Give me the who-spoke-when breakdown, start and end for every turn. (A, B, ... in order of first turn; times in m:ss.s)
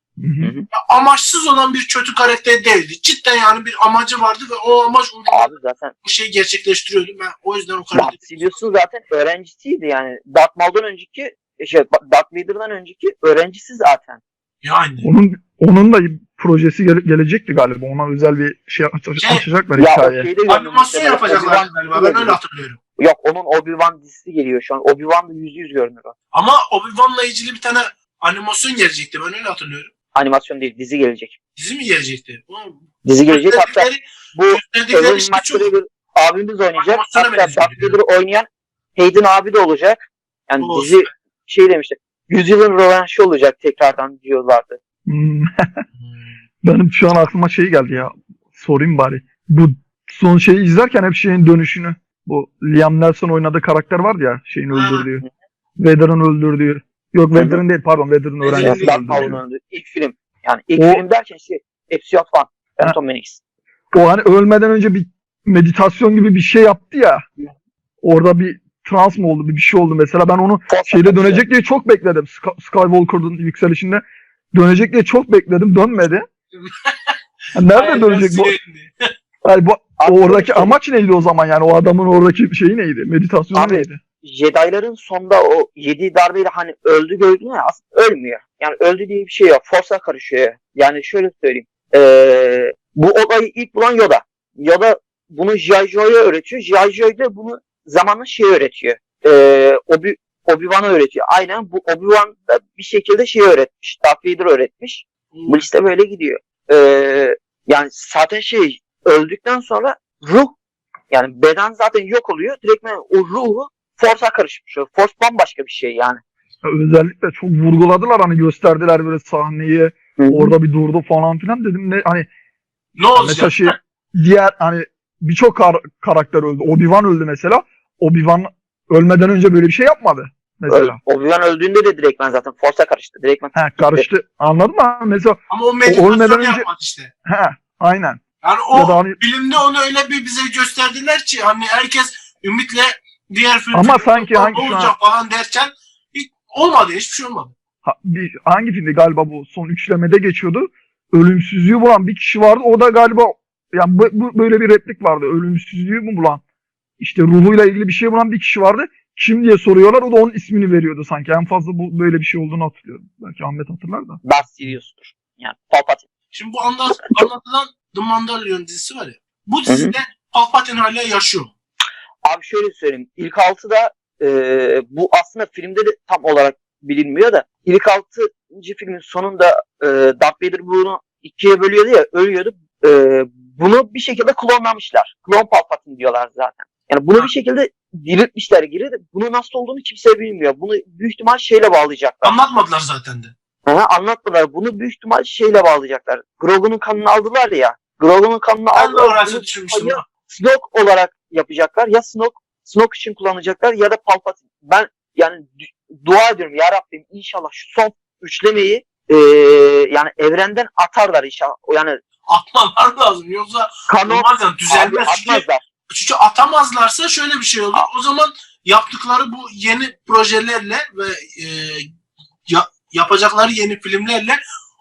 0:00.2-0:00.5 A
0:00.4-0:00.7 B
0:00.7-0:08.6 C
0:05.3-0:05.9 B
0:07.9-0:14.2 B
0:14.6-0:15.1 C
0:15.0-0:20.3 A
0:19.2-0:19.4 C
0:19.8-0:22.4 B
0:20.5-0:22.8 C
0:23.0-0:26.2 B
0:26.3-0:29.9 C
0:30.2-0:31.4 B
0:31.6-0:35.7 C
0:33.0-0:44.8 B
0:36.8-0:38.0 C
0:40.6-0:41.1 C
0:45.1-0:45.8 A
0:46.6-0:55.2 A
0:54.7-0:55.1 C
0:55.8-0:59.4 A
0:57.4-0:57.6 B
0:58.4-0:59.3 C
0:58.6-1:03.4 B
1:00.8-1:01.0 A
1:03.9-1:07.2 A
1:08.0-1:14.0 A
1:10.7-1:11.4 B
1:14.5-1:16.3 A
1:16.6-1:17.2 C
1:17.6-1:18.6 A
1:17.7-1:19.1 C
1:19.4-1:24.0 A
1:20.0-1:20.8 B
1:23.6-1:50.6 B
1:45.3-1:45.7 C
1:51.1-1:56.2 B
1:56.6-2:02.3 A
2:00.2-2:00.5 B
2:03.0-2:03.8 C
2:03.2-2:11.0 A
2:10.7-2:14.1 B
2:13.6-2:16.7 A
2:15.5-2:17.1 C
2:17.3-2:18.2 A
2:18.4-2:27.5 C
2:18.7-2:19.2 A
2:23.7-2:24.9 A
2:27.8-2:36.4 A
2:37.0-2:44.2 A
2:44.2-2:46.1 B
2:46.3-2:51.5 C
2:49.7-2:49.9 B
2:52.2-3:12.4 B
3:12.2-3:13.3 C
3:13.7-3:32.0 B
3:18.7-3:20.0 C
3:32.3-3:41.9 C
3:33.9-3:35.6 B
3:42.5-3:44.4 C